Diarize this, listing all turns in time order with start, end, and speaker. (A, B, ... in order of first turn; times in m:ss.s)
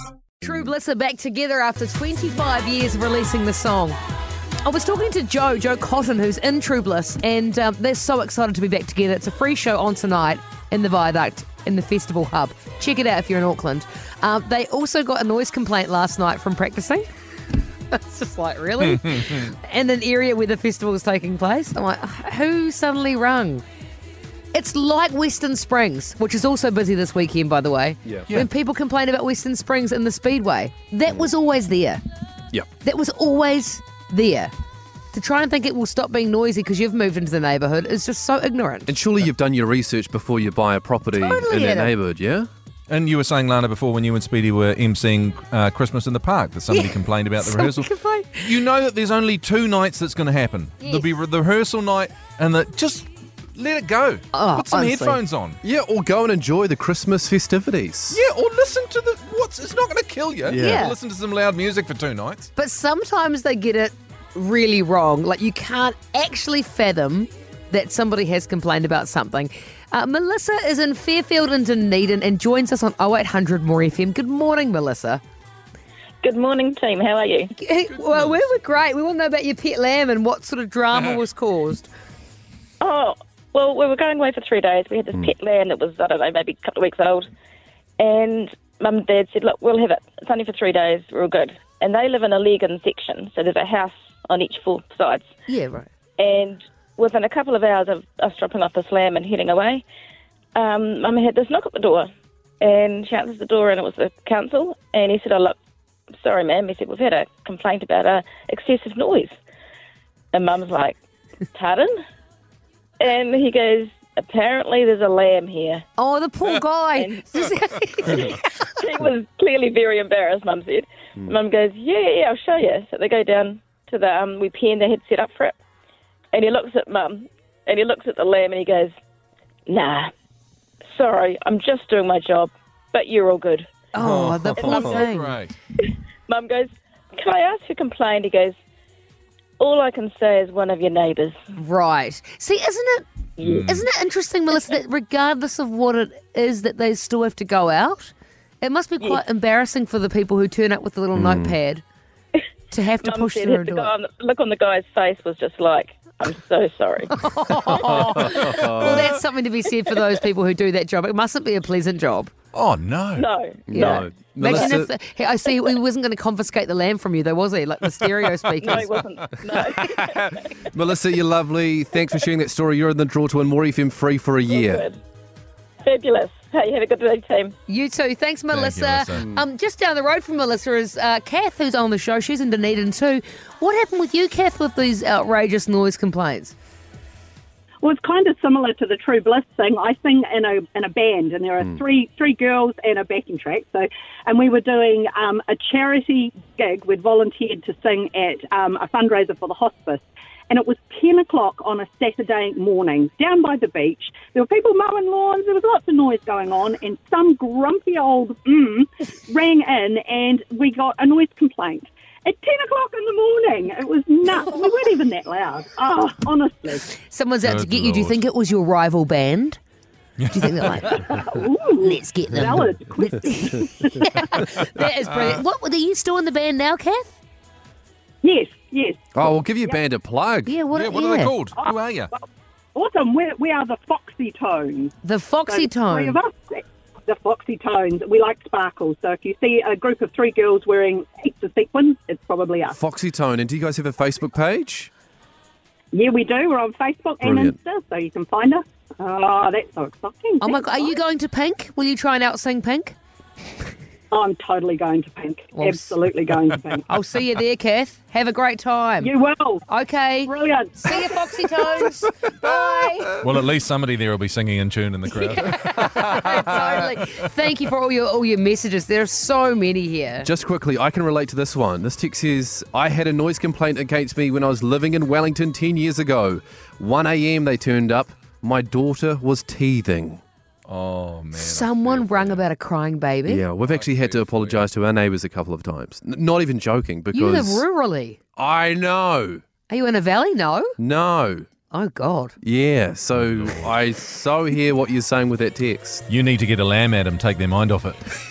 0:00.4-0:04.0 A
0:04.6-0:17.0 A
0:17.9-0:23.6 A
0:18.9-0:19.4 B
0:24.5-0:32.0 A
0:32.8-0:34.5 A
0:35.1-0:38.9 A
0:38.9-0:42.5 C
0:41.1-0:41.9 A
0:42.9-0:47.9 B
0:46.7-0:48.6 A
0:48.4-0:55.6 B
0:50.8-0:51.0 A
0:54.3-0:55.2 A
0:55.6-0:58.2 C
0:58.1-1:02.5 B
1:00.5-1:00.9 C
1:00.6-1:01.0 A
1:02.6-1:15.2 A
1:16.2-1:17.5 D
1:17.5-1:21.9 A
1:17.9-1:18.5 B
1:22.8-1:27.3 D
1:28.0-1:35.3 D
1:35.5-1:35.9 A
1:36.2-1:39.8 D
1:40.5-1:42.1 D
1:42.6-1:45.6 D
1:46.2-1:49.3 D
1:50.3-1:51.0 D
1:51.5-1:52.0 D
1:53.0-1:55.8 D
1:56.0-1:58.7 A
1:57.0-1:57.2 D
1:58.0-2:05.6 D
2:06.3-2:08.9 D
2:09.7-2:10.1 D
2:10.9-2:13.7 D
2:13.9-2:15.4 A
2:14.0-2:15.5 B
2:14.6-2:15.0 D
2:15.8-2:18.6 D
2:19.6-2:21.4 D
2:21.5-2:31.8 A
2:23.4-2:23.7 D
2:23.4-2:23.8 B
2:31.2-2:31.5 C
2:32.7-2:33.9 A
2:33.0-2:37.1 D
2:37.1-2:42.3 A
2:37.7-2:39.2 C
2:42.5-2:43.2 B
2:43.2-2:44.7 D
2:43.7-2:44.9 C
2:43.7-2:48.9 A
2:48.6-2:50.6 D
2:50.7-2:54.8 C
2:54.5-2:55.0 D
2:55.8-2:57.5 D
2:57.7-3:06.5 A
2:58.5-2:59.2 B
3:07.8-3:36.8 E
3:37.0-3:39.6 A
3:37.4-3:38.2 B
3:40.2-3:40.9 B
3:40.3-3:41.2 A
3:41.0-3:44.3 E
3:41.8-3:43.5 A
3:44.0-3:47.1 A
3:48.2-3:49.2 E
3:49.1-3:50.6 C
3:50.4-3:51.4 A
3:50.7-3:52.1 B
3:52.1-3:54.9 E
3:55.0-3:56.2 A
3:55.5-4:02.8 E
4:02.7-4:04.9 C
4:05.9-4:10.8 E
4:07.2-4:07.6 C
4:10.4-4:13.0 A
4:14.1-4:16.8 E
4:15.5-4:16.0 A
4:16.9-4:19.1 A
4:19.0-4:19.6 E
4:19.7-4:23.1 A
4:20.2-4:21.0 E
4:23.2-4:27.3 B
4:25.1-4:30.3 A
4:30.2-4:40.2 C
4:40.7-4:42.4 B
4:41.4-4:43.4 A
4:43.3-4:47.6 C
4:43.6-4:44.6 B
4:47.1-4:48.2 A
4:48.4-4:49.4 C
4:49.7-4:50.7 A
4:50.8-4:51.5 C
4:51.7-4:52.3 A
4:52.4-4:56.0 C
4:53.2-4:53.8 B
4:56.1-4:58.1 B